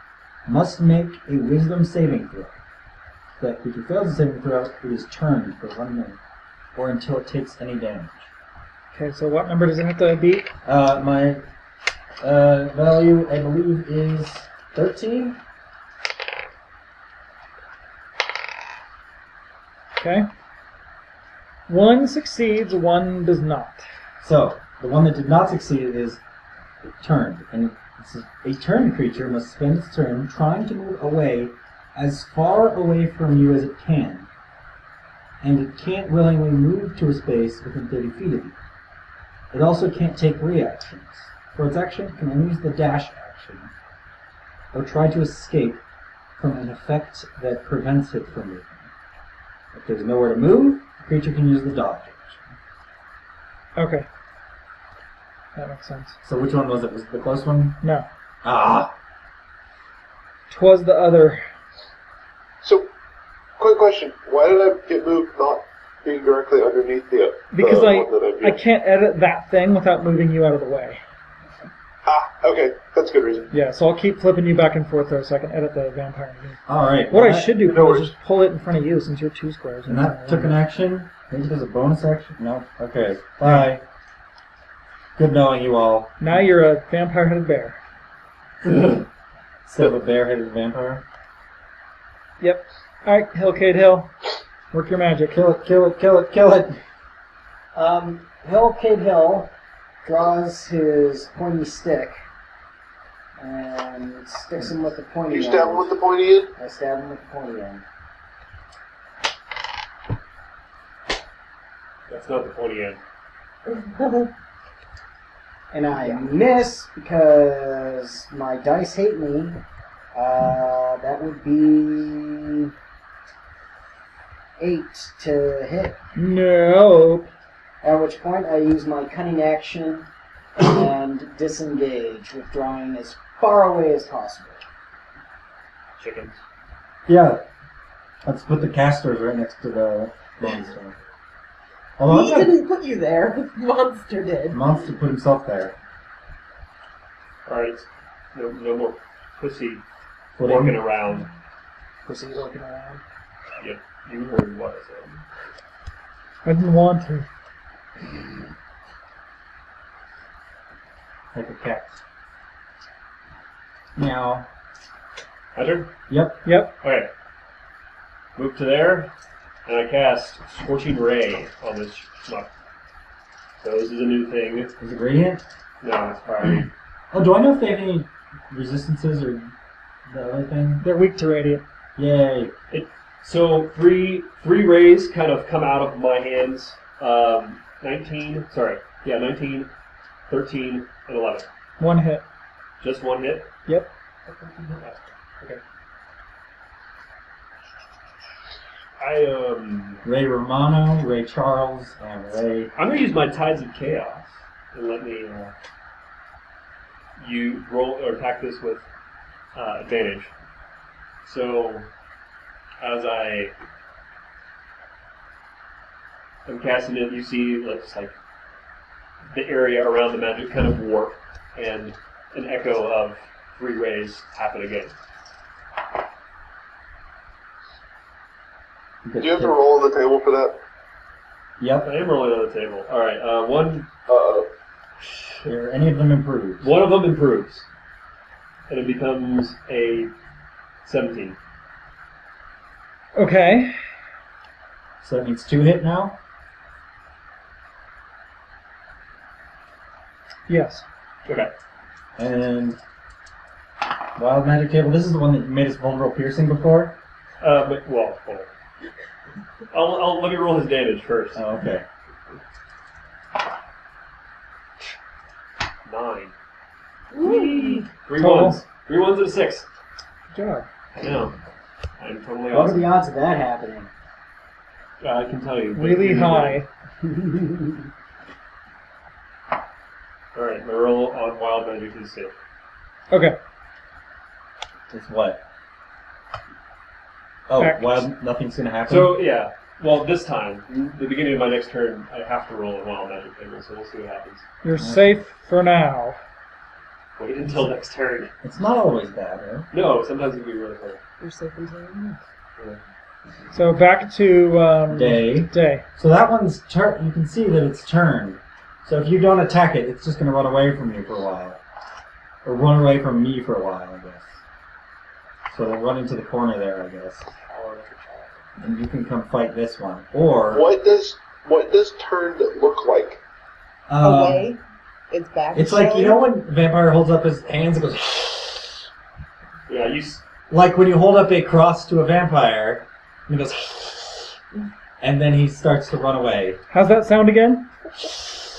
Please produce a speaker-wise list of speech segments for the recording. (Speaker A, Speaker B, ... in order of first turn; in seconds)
Speaker A: 0.5-2.6, 3.4-6.2, 6.8-8.3, 10.6-11.4, 12.2-15.4, 24.2-26.2, 27.0-34.3, 35.4-38.5, 39.5-43.7, 44.7-45.8, 46.4-48.9, 49.7-52.5, 56.2-57.8, 58.4-58.9, 76.7-77.6, 79.8-83.8, 85.2-86.4, 88.7-89.0, 89.6-91.0, 95.3-96.8, 137.1-137.4, 138.2-140.9, 142.0-142.6, 144.5-145.8, 150.4-150.8, 161.3-162.0, 163.9-164.5, 166.1-166.4, 174.8-175.4, 177.1-179.5, 180.1-180.8, 181.9-182.5, 200.0-202.7, 229.0-229.6, 231.6-231.9, 235.4-236.7, 245.0-246.2, 252.2-252.8, 254.2-257.0, 261.3-261.9, 284.9-285.4, 287.5-289.2, 294.8-295.2, 298.4-299.7, 304.9-311.6, 312.4-314.4, 315.5-317.3, 318.6-320.6, 323.9-324.5, 325.5-328.8, 330.5-334.3, 335.0-336.6
Speaker B: 8.9-10.5, 20.0-20.3, 21.7-23.8, 53.7-54.1, 55.5-56.2, 57.8-58.1, 60.5-61.4, 67.5-71.0, 73.5-80.6, 86.2-87.8, 92.4-94.1, 94.7-95.4, 126.1-127.3, 156.4-157.3, 166.4-166.7, 180.8-181.6, 191.8-192.2, 243.1-243.8, 250.5-250.8, 268.2-268.6, 270.3-270.7, 275.8-276.7, 283.1-283.4, 287.6-288.1, 294.6-296.2, 303.5-305.8, 336.7-337.7
Speaker C: 62.6-62.9, 63.6-68.6, 72.0-73.5, 77.6-78.1, 105.3-106.5, 229.2-230.6, 234.1-234.5, 320.5-323.2
Speaker D: 88.7-89.0, 112.1-113.0, 136.0-136.4, 147.4-149.8, 150.4-151.3, 153.6-155.2, 165.5-165.9, 166.8-167.1, 168.3-169.1, 169.7-172.5, 173.6-174.7, 175.8-176.7, 182.7-189.7, 190.3-191.5, 192.8-193.5, 194.3-195.6, 199.0-200.0, 202.8-205.5, 207.2-208.8, 209.5-210.3, 211.2-211.9, 212.8-213.5, 216.4-218.1, 219.3-224.9, 231.8-233.9, 235.0-235.5, 236.6-237.7, 238.7-240.1, 240.8-241.4, 251.2-251.5, 257.4-258.5, 259.7-261.4, 265.9-266.3, 267.2-269.7, 270.9-271.4, 272.0-272.9, 275.0-276.6, 280.3-282.3, 288.9-294.4, 297.2-298.3, 299.7-301.0, 317.5-318.3, 329.7-330.2
Speaker E: 97.7-99.5, 100.0-102.2, 103.4-105.9, 106.5-107.8, 115.7-119.6, 120.1-122.7, 124.6-126.0, 127.8-134.6, 152.0-153.0, 272.5-273.9
Speaker F: 113.7-114.3, 142.0-144.6, 267.1-267.9, 301.2-302.2, 324.0-326.2